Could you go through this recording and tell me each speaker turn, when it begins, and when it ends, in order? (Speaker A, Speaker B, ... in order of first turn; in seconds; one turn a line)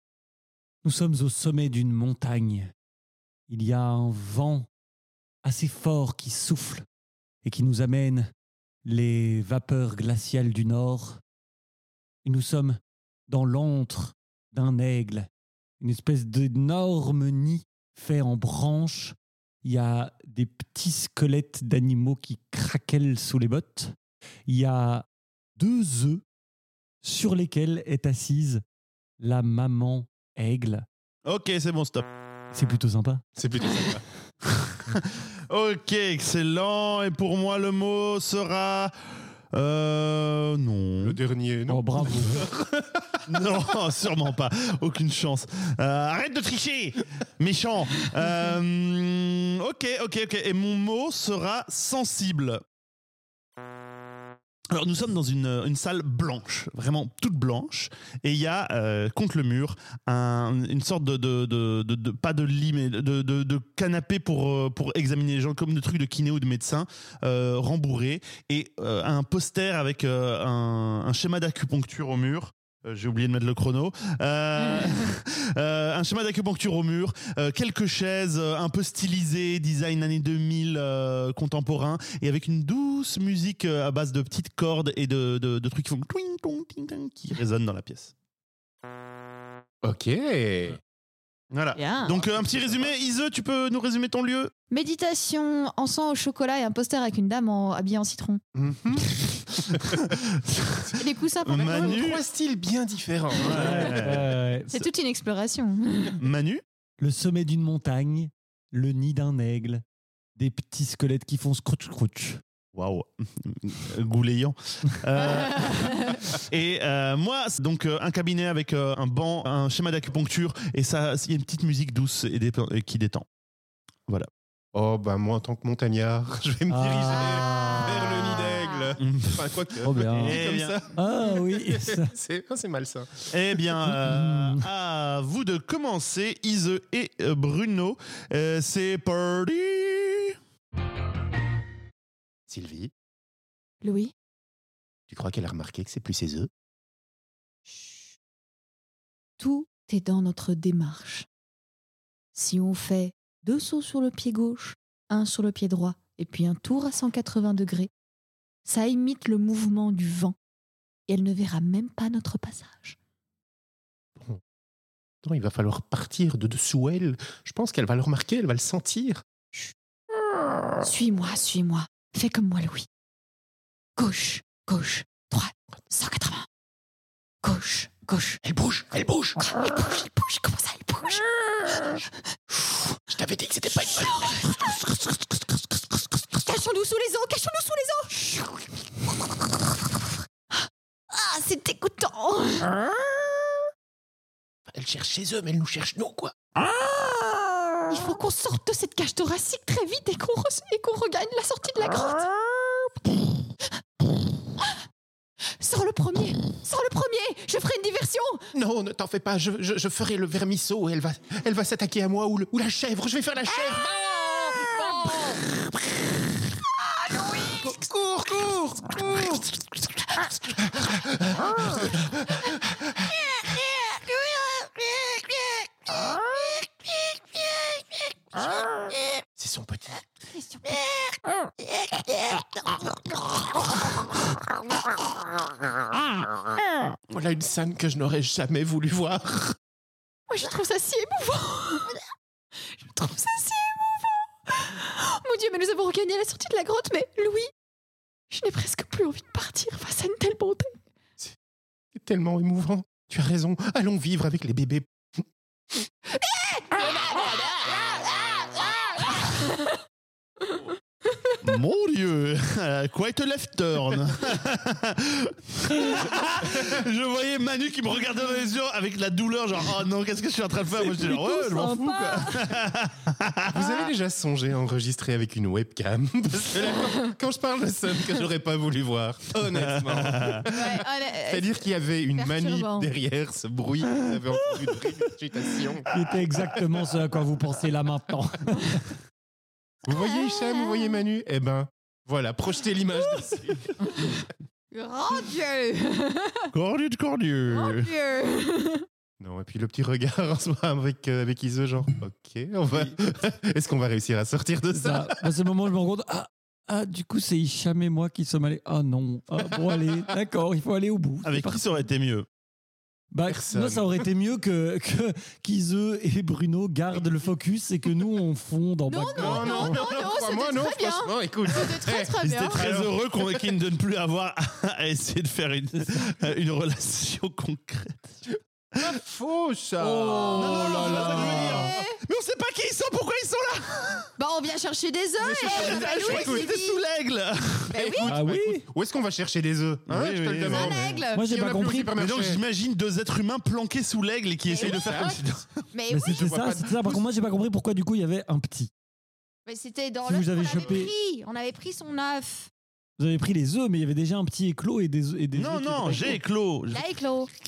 Speaker A: 0.8-2.7
Speaker A: 3.5-4.7
Speaker A: 5.4-6.8
Speaker A: 7.4-8.3
Speaker A: 8.8-11.2
Speaker A: 12.2-15.3
Speaker A: 15.8-23.9
Speaker A: 24.5-25.1
Speaker A: 25.6-26.2
Speaker A: 27.0-28.6
Speaker A: 29.2-30.9
Speaker B: 31.2-32.1
Speaker A: 32.5-33.2
Speaker C: 33.4-34.0
Speaker B: 34.4-38.9
Speaker B: 39.5-41.2
Speaker C: 41.0-43.2
Speaker A: 41.7-42.5
Speaker B: 43.3-52.6
Speaker B: 54.7-88.1
Speaker C: 89.8-90.8
Speaker B: 91.5-94.5
Speaker D: 91.8-92.2
Speaker C: 92.3-92.9
Speaker D: 94.7-98.4
Speaker C: 98.5-99.0
Speaker B: 99.7-102.2
Speaker D: 100.9-102.0
Speaker C: 101.5-104.1
Speaker B: 103.4-104.3
Speaker A: 103.5-104.9
Speaker D: 104.7-106.2
Speaker B: 106.2-106.6
Speaker A: 107.0-109.8
Speaker A: 110.3-112.4
Speaker B: 112.7-123.2
Speaker D: 115.7-116.1
Speaker C: 124.7-133.3
Speaker A: 126.7-128.1
Speaker D: 127.2-128.9
Speaker B: 129.0-129.4
Speaker A: 129.8-130.4
Speaker B: 130.1-130.8
Speaker A: 130.9-132.1
Speaker B: 133.3-140.3
Speaker A: 133.8-134.7
Speaker C: 142.5-142.9
Speaker D: 143.8-144.1
Speaker C: 145.1-146.5
Speaker D: 147.7-148.1
Speaker D: 149.4-151.2
Speaker D: 152.3-157.9
Speaker D: 158.7-160.3
Speaker D: 161.1-162.9
Speaker C: 165.2-169.2
Speaker D: 170.8-172.9
Speaker D: 174.0-176.4
Speaker D: 177.4-178.4
Speaker C: 178.4-179.5
Speaker D: 179.4-182.0
Speaker C: 183.1-184.7
Speaker D: 183.9-184.9
Speaker D: 186.3-188.6
Speaker D: 189.3-192.9
Speaker C: 194.7-196.3
Speaker D: 197.9-202.3
Speaker D: 205.6-208.4
Speaker C: 208.5-215.4
Speaker D: 214.5-215.3
Speaker D: 217.2-217.5
Speaker C: 217.4-219.5
Speaker C: 220.5-222.9
Speaker D: 223.4-224.7
Speaker C: 229.3-230.0
Speaker D: 230.3-230.8
Speaker C: 237.1-239.6
Speaker D: 240.3-242.0
Speaker D: 242.7-247.5
Speaker D: 248.3-250.8
Speaker C: 251.9-254.9
Speaker D: 256.1-259.8
Speaker D: 261.1-261.4
Speaker B: 261.4-273.8
Speaker A: 270.8-272.4
Speaker C: 273.5-285.9
Speaker B: 279.5-280.5
Speaker D: 280.5-281.6
Speaker D: 282.1-282.9
Speaker A: 285.9-288.9
Speaker C: 289.8-293.7
Speaker D: 289.9-291.0
Speaker D: 293.8-296.5
Speaker B: 296.5-297.9
Speaker D: 297.5-298.9
Speaker C: 299.2-305.2
Speaker A: 304.7-311.8
Speaker B: 311.2-312.3
Speaker A: 313.1-319.8
Speaker C: 313.2-314.1
Speaker D: 318.9-322.6
Speaker C: 319.1-323.5
Speaker B: 322.2-328.2
Speaker A: 325.7-326.0
Speaker C: 328.8-331.6
Speaker A: 329.8-331.7
Speaker B: 330.3-334.1
Speaker D: 330.7-332.0
Speaker D: 334.2-336.8
Speaker C: 335.2-336.5
Speaker B: 335.4-337.7
Speaker D: 337.7-338.1
Speaker C: 337.7-342.4
Speaker A: 338.1-338.6
Speaker B: 339.9-341.0
Speaker D: 340.4-341.2
Speaker A: 341.1-341.9
Speaker B: 341.9-345.5
Speaker D: 344.5-345.2
Speaker C: 344.6-345.2
Speaker D: 345.7-346.6
Speaker A: 345.9-348.7
Speaker C: 346.1-347.0
Speaker D: 349.4-352.5
Speaker A: 350.0-350.9
Speaker A: 353.0-356.2
Speaker B: 355.3-356.8
Speaker D: 356.7-357.3